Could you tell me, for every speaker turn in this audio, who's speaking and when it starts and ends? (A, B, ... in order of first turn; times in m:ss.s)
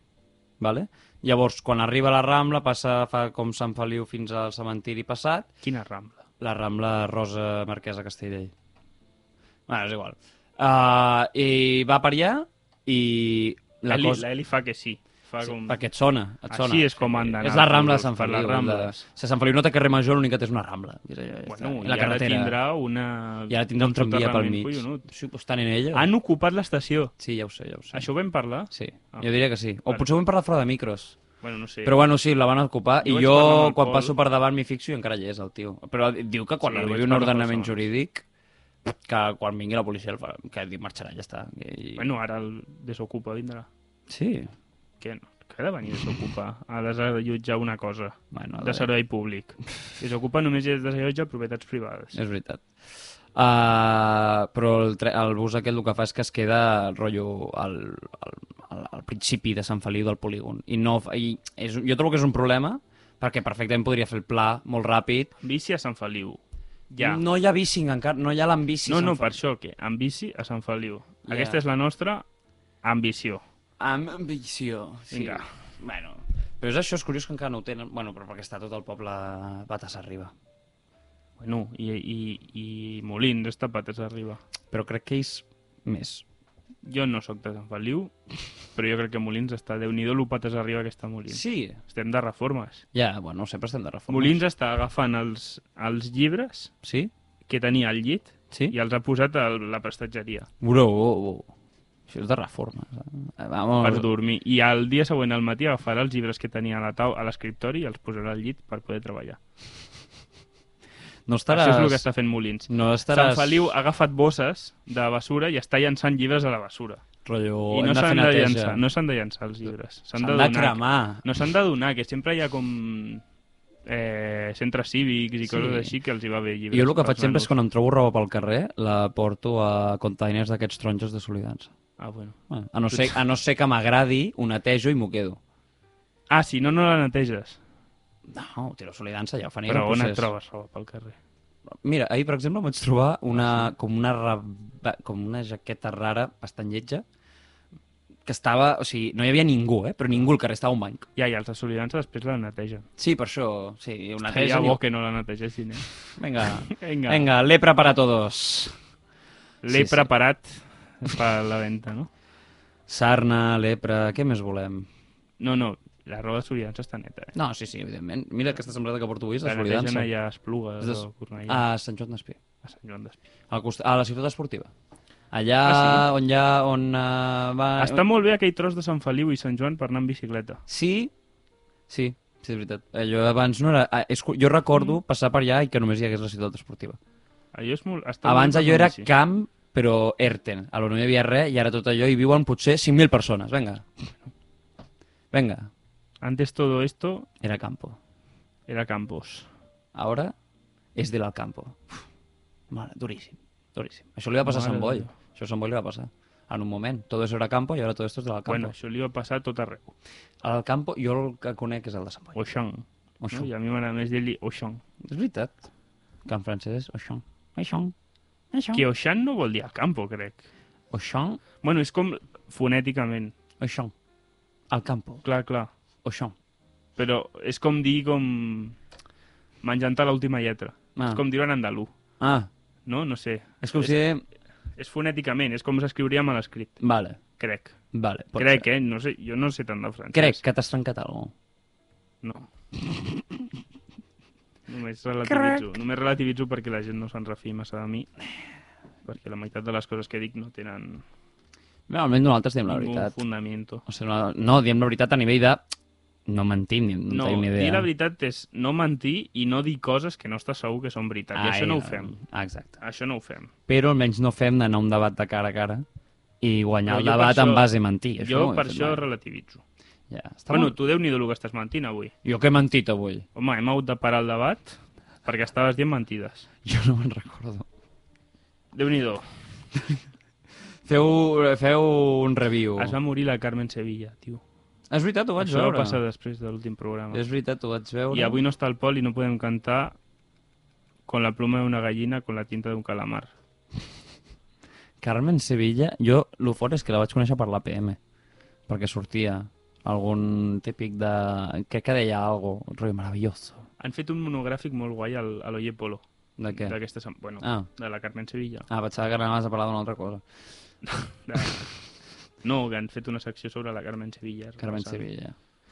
0:00.6-0:05.5 A
0:05.6-0:06.2 B
0:06.4-0:08.5 A
0:09.7-0:14.2 A
0:13.9-0:15.8 B
0:15.4-0:22.5 A
0:16.5-0:19.0 B
0:21.4-0:25.1 B
0:23.5-0:26.1 A
0:25.9-0:27.1 B
0:27.2-0:28.1 A
0:27.9-0:29.3 B
0:28.7-0:31.2 A
0:31.4-0:32.0 B
0:31.8-0:38.2 A
0:33.0-0:34.2 B
0:36.6-0:37.8 B
0:38.9-0:42.1 A
0:42.0-0:43.7 B
0:44.1-0:44.5 A
0:45.0-0:52.2 B
0:48.3-0:48.9 A
0:52.1-0:52.6 A
0:53.3-1:05.3 A
1:05.4-1:07.2 B
1:07.0-1:09.3 A
1:08.9-1:12.2 B
1:11.2-1:11.6 A
1:12.8-1:13.4 B
1:13.8-1:20.3 A
1:15.1-1:15.5 B
1:21.4-1:24.4 B
1:24.7-1:26.2 A
1:26.8-1:28.1 B
1:28.7-1:32.8 B
1:31.3-1:31.8 A
1:32.9-1:34.4 A
1:34.1-1:36.7 B
1:36.8-1:37.1 A
1:37.4-1:40.5 B
1:40.6-1:41.5 A
1:42.1-1:44.1 A
1:43.8-1:49.4 B
1:51.3-1:52.0 A
1:51.5-1:57.0 B
1:52.7-1:53.7 A
1:57.2-1:58.8 A
1:57.7-2:03.2 B
2:00.2-2:01.2 A
2:03.9-2:07.5 B
2:05.4-2:05.9 A
2:06.7-2:11.7 A
2:12.0-2:12.4 B
2:12.5-2:15.4 A
2:12.9-2:13.2 B
2:16.3-2:17.6 B
2:18.3-2:20.3 A
2:19.6-2:21.2 B
2:21.8-2:27.0 A
2:23.3-2:23.7 B
2:28.2-2:31.0 A
2:31.2-2:32.9 B
2:33.0-2:34.8 A
2:34.2-2:35.9 B
2:36.2-2:38.7 A
2:36.4-2:37.3 B
2:39.6-2:42.1 B
2:39.7-2:40.1 A
2:42.9-2:44.9 A
2:45.4-2:47.3 B
2:47.3-2:50.1 A
2:49.4-2:51.6 B
2:50.8-2:52.4 A
2:52.6-2:53.2 B
2:53.5-2:54.7 A
2:55.3-2:58.0 A
2:55.6-2:56.1 B
2:57.8-3:00.6 B
3:00.7-3:01.1 A
3:01.9-3:07.0 A
3:04.7-3:05.0 B
3:07.5-3:09.1 B
3:08.2-3:13.8 A
3:15.3-3:15.7 A
3:16.2-3:17.3 B
3:17.4-3:18.0 A
3:18.7-3:19.5 B
3:19.9-3:20.3 A
3:20.9-3:22.0 A
3:22.7-3:28.7 A
3:24.4-3:25.1 B
3:28.5-3:29.9 B
3:30.4-3:32.4 A
3:32.3-3:34.8 B
3:33.2-3:33.5 A
3:35.0-3:35.7 A
3:36.2-3:37.9 A
3:38.5-3:38.8 A
3:38.7-3:40.5 B
3:40.9-3:41.4 A
3:41.6-3:43.3 B
3:43.6-3:43.9 A
3:44.7-3:45.2 A
3:45.2-3:45.7 B
3:46.0-3:46.3 A
3:47.0-3:48.8 B
3:49.6-3:51.9 B
3:51.0-3:51.2 A
3:52.2-3:52.5 A
3:52.9-3:54.1 B
3:53.6-3:54.2 A
3:54.8-3:56.8 B
3:56.8-3:57.2 A
3:57.4-3:57.8 B
3:57.9-3:58.6 A
3:58.3-4:00.4 B
4:00.1-4:01.3 A
4:02.2-4:02.5 B
4:04.7-4:08.1 B
4:05.2-4:05.6 A
4:09.0-4:11.0 B
4:11.9-4:13.2 A
4:12.7-4:13.8 B
4:13.9-4:15.6 A
4:16.3-4:17.9 A
4:17.1-4:22.2 B
4:21.3-4:22.8 A
4:22.8-4:23.5 B
4:23.7-4:25.8 A
4:26.4-4:29.0 A
4:26.9-4:29.6 B
4:30.1-4:30.8 A
4:30.5-4:32.1 B
4:32.2-4:33.2 A
4:33.3-4:36.5 B
4:36.6-4:37.6 A
4:38.7-4:39.3 B
4:40.9-4:42.9 A
4:42.8-4:44.4 B
4:44.9-4:46.0 A
4:45.4-4:47.2 B
4:47.1-4:48.4 A
4:48.1-4:50.0 B
4:51.1-4:53.3 B
4:55.0-4:58.0 A
4:58.7-5:03.7 A
5:03.8-5:08.7 B
5:06.4-5:06.8 A
5:07.4-5:07.7 A
5:08.7-5:10.2 A
5:10.8-5:11.7 B
5:12.4-5:15.0 B
5:14.6-5:15.3 A